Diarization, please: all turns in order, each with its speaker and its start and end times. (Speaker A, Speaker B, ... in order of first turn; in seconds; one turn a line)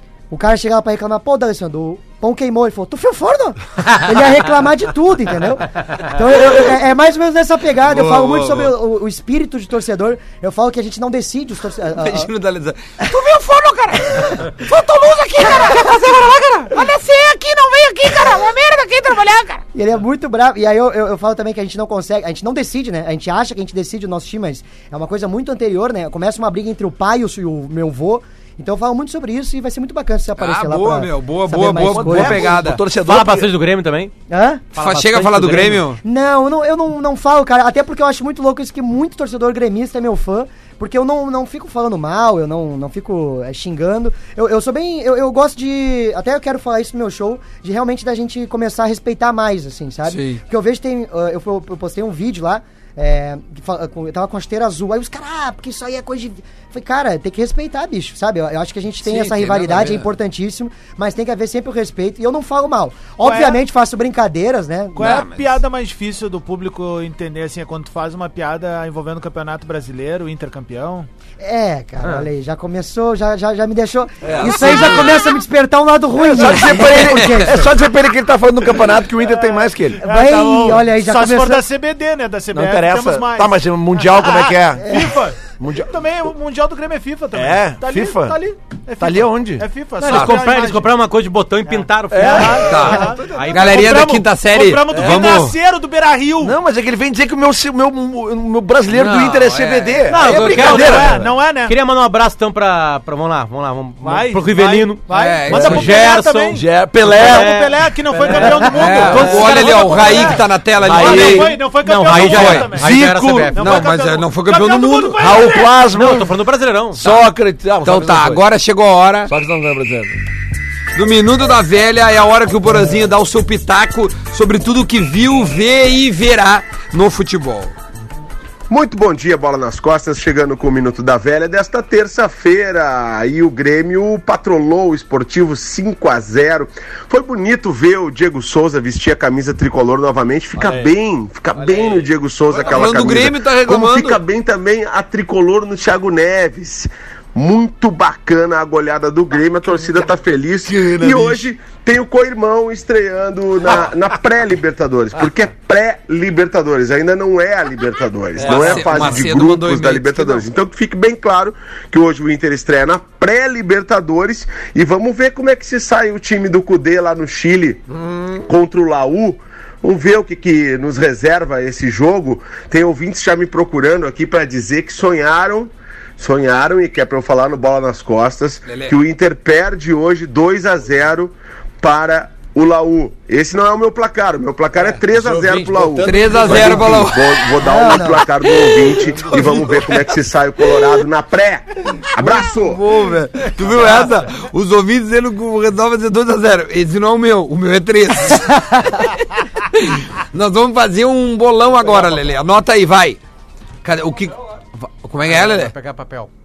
Speaker A: 0.3-12.3
Speaker B: 7.8-8.8
Speaker B: 11.9-19.6
Speaker A: 14.2-14.6
Speaker A: 15.5-15.8
Speaker A: 19.7-32.5
Speaker B: 30.4-32.8
Speaker C: 31.8-33.5
Speaker D: 33.0-34.1
Speaker A: 34.3-34.7
Speaker D: 34.7-35.8
Speaker B: 34.8-36.0
Speaker A: 36.0-65.1
Speaker B: 50.0-50.4
Speaker B: 59.0-60.1
Speaker E: 63.2-63.6
Speaker E: 65.0-71.1
Speaker B: 65.0-65.5
Speaker A: 71.4-77.7
Speaker C: 74.2-75.1
Speaker B: 74.3-75.2
Speaker C: 76.2-80.0
Speaker B: 76.6-77.5
Speaker E: 79.2-90.9
Speaker A: 80.0-81.6
Speaker C: 82.5-85.9
Speaker C: 87.3-88.4
Speaker C: 89.0-89.7
Speaker D: 90.0-94.0
Speaker B: 90.1-90.4
Speaker E: 91.7-96.6
Speaker C: 92.1-93.8
Speaker B: 92.6-95.6
Speaker C: 94.9-95.4
Speaker C: 96.4-101.3
Speaker B: 98.9-101.0
Speaker D: 100.1-113.8
Speaker E: 100.1-101.8
Speaker E: 104.0-115.7
Speaker B: 105.1-106.1
Speaker C: 105.5-105.9
Speaker C: 106.5-107.5
Speaker B: 108.6-112.9
Speaker C: 109.0-109.5
Speaker C: 110.8-111.5
Speaker C: 112.8-113.6
Speaker B: 113.6-115.5
Speaker C: 115.2-116.3
Speaker D: 115.9-117.2
Speaker C: 116.9-118.5
Speaker B: 117.8-119.3
Speaker C: 119.3-120.2
Speaker B: 120.9-127.7
Speaker F: 128.7-167.8
Speaker C: 140.6-140.9
Speaker C: 141.5-143.3
Speaker B: 142.7-144.2
Speaker C: 150.7-151.5
Speaker C: 158.4-159.4
Speaker B: 158.4-160.5
Speaker B: 167.9-168.5
Speaker F: 168.5-192.8
Speaker B: 178.7-179.0
Speaker C: 184.8-187.1
Speaker B: 186.0-187.5
Speaker A: 187.6-188.3
Speaker B: 188.5-188.9
Speaker C: 189.1-190.2
Speaker B: 192.2-203.2
Speaker C: 193.6-194.1
Speaker B: 203.8-205.7
Speaker D: 205.2-206.3